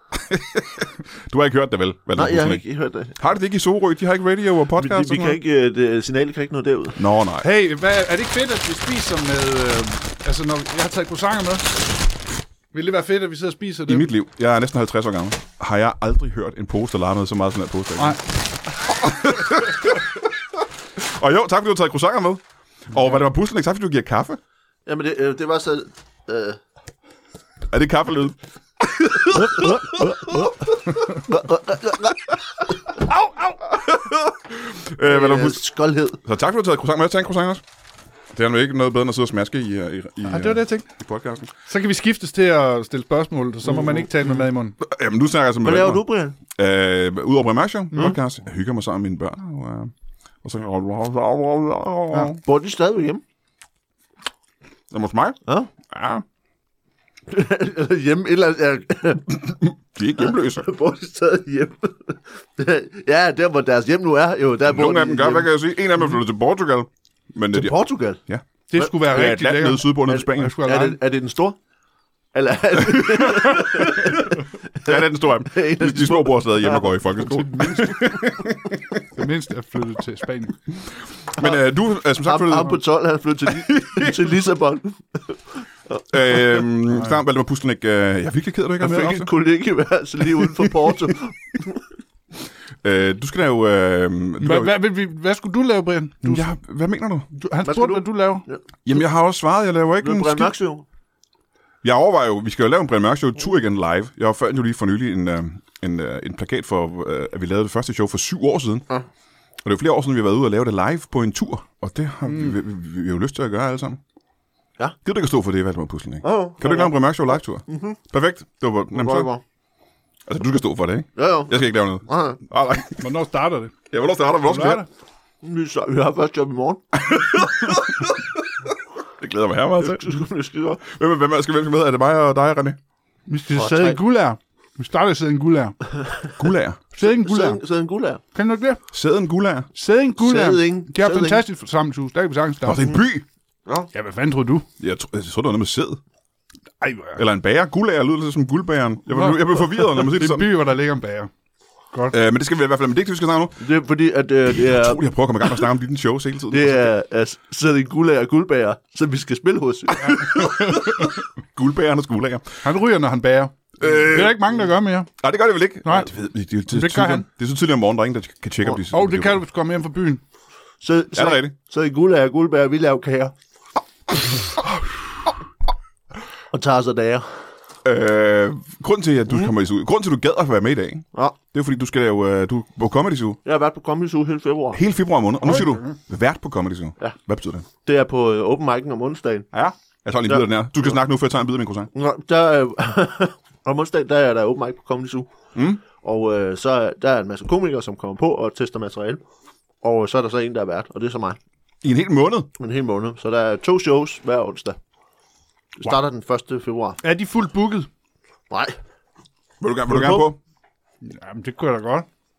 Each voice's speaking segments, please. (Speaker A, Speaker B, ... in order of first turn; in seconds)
Speaker A: 0.1-2.6, 3.1-5.4, 7.0-7.5, 13.9-18.2, 18.9-20.2, 21.0-24.4, 27.7-30.5, 33.7-35.7, 36.2-37.6, 38.3-41.5, 43.8-44.1, 44.8-49.9, 50.4-52.4, 54.9-56.2, 59.4-60.7, 64.7-70.5, 72.9-78.8, 81.2-82.8, 83.6-84.2, 86.1-89.3, 92.8-94.8, 96.2-97.3, 98.8-100.5, 101.8-108.9, 109.6-114.0, 115.0-119.3, 120.3-123.0, 123.9-124.8, 127.0-127.9, 129.2-130.2, 130.8-132.8, 136.4-136.8, 138.9-139.7, 142.7-143.2, 144.8-146.0, 147.2-150.5, 152.1-153.6, 154.5-156.9, 160.1-162.6, 163.8-164.6, 165.2-169.4, 171.1-171.5, 177.8-183.4, 184.7-187.7, 189.5-191.9, 195.6-195.8, 201.8-202.5, 209.6-210.4
Speaker B: 2.2-3.2, 4.8-7.0, 24.9-26.6, 31.2-32.9, 35.0-36.2, 45.6-46.4, 52.4-53.2, 57.3-59.3, 60.2-65.5, 67.5-68.2, 70.1-71.6, 72.3-77.0, 82.2-86.7, 88.8-91.8, 97.7-98.6, 100.0-100.8, 116.2-117.0, 117.7-118.0, 118.9-119.4, 121.2-122.4, 125.4-126.9, 129.8-130.8, 133.5-134.0, 137.0-138.2, 140.2-141.4, 143.7-143.9, 153.6-155.7, 156.5-161.0, 170.8-173.3, 176.5-177.3, 183.4-184.8, 187.8-189.5, 190.3-190.9, 191.9-195.3, 195.8-199.2, 199.8-201.4, 202.6-204.8, 205.8-207.0, 208.5-208.8, 209.9-210.3
Speaker C: 7.4-11.8, 12.7-14.1, 33.1-33.6, 40.3-40.9, 41.6-44.8, 68.7-71.0, 79.1-80.6, 94.4-96.5, 97.3-98.5, 112.3-112.5, 123.0-123.8, 124.4-124.9, 133.3-135.8, 136.9-137.6, 138.3-138.8, 139.8-142.9, 143.9-144.7, 146.8-147.2, 149.1-151.3, 160.2-160.5, 162.6-165.1, 165.8-166.1, 166.7-167.3, 168.8-170.2, 207.0-207.9, 211.0-212.1